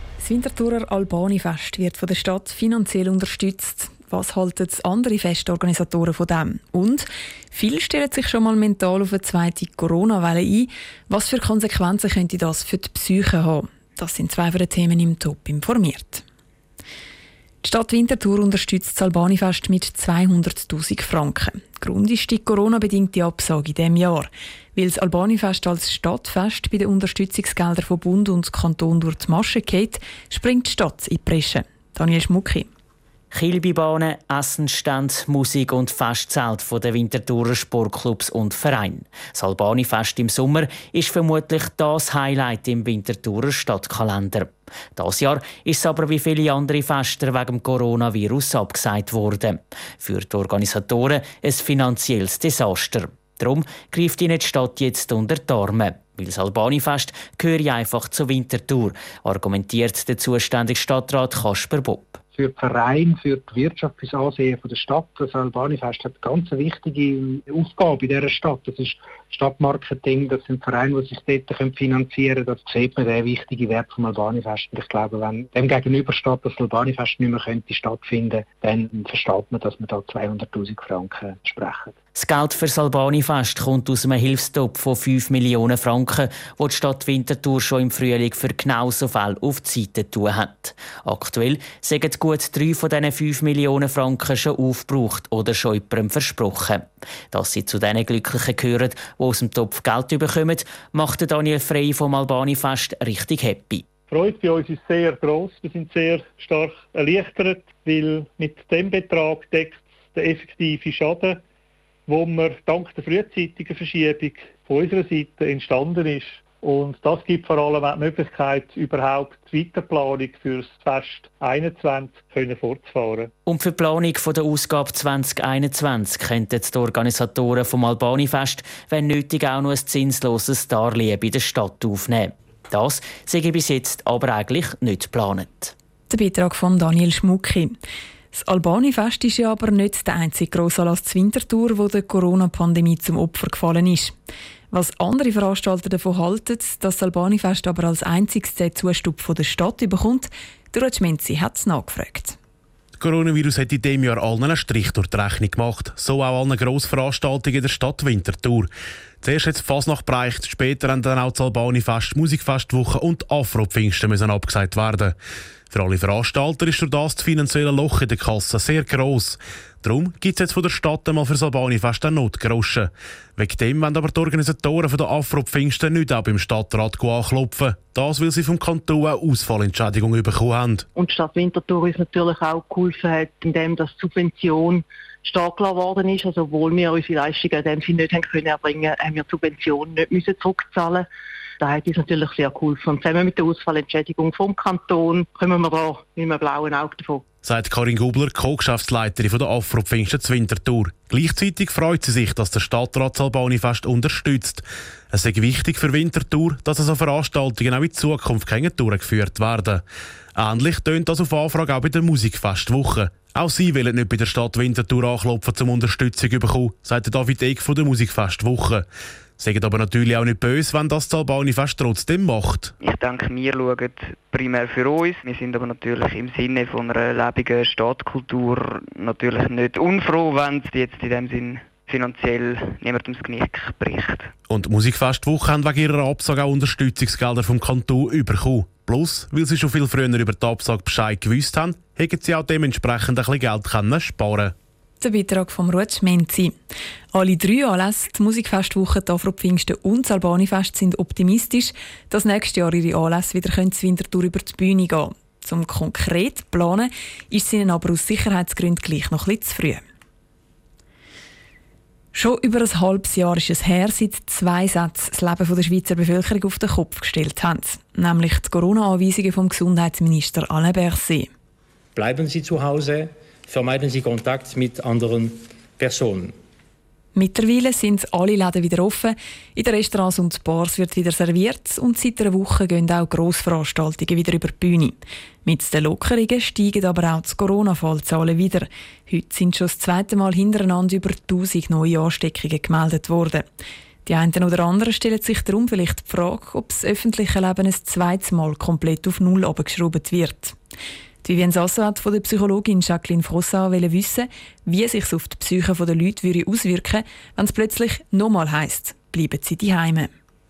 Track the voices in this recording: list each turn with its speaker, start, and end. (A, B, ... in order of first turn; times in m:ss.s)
0:00.2-0:16.2 A
0:17.6-0:32.7 A
0:33.3-1:02.2 B
1:02.3-1:21.9 C
1:22.1-1:43.8 B
1:44.1-1:51.4 D
1:52.1-2:03.3 D
2:03.5-2:15.7 B
2:16.1-2:17.8 A
2:18.3-2:24.1 A
2:24.7-2:32.4 A
2:33.0-2:38.7 E
2:39.2-2:45.1 E
2:45.7-3:00.8 E
3:01.0-3:11.1 F
3:11.6-3:17.2 F
3:17.4-3:29.8 E
3:30.4-3:38.8 E
3:39.4-3:42.7 E
3:42.8-3:54.3 G
3:54.5-4:04.5 E
4:05.0-4:06.6 A
4:07.1-4:19.8 A
4:22.1-4:31.3 A
4:32.0-4:36.3 H
4:37.1-4:53.5 A
4:54.0-5:00.6 A
5:01.2-5:10.1 A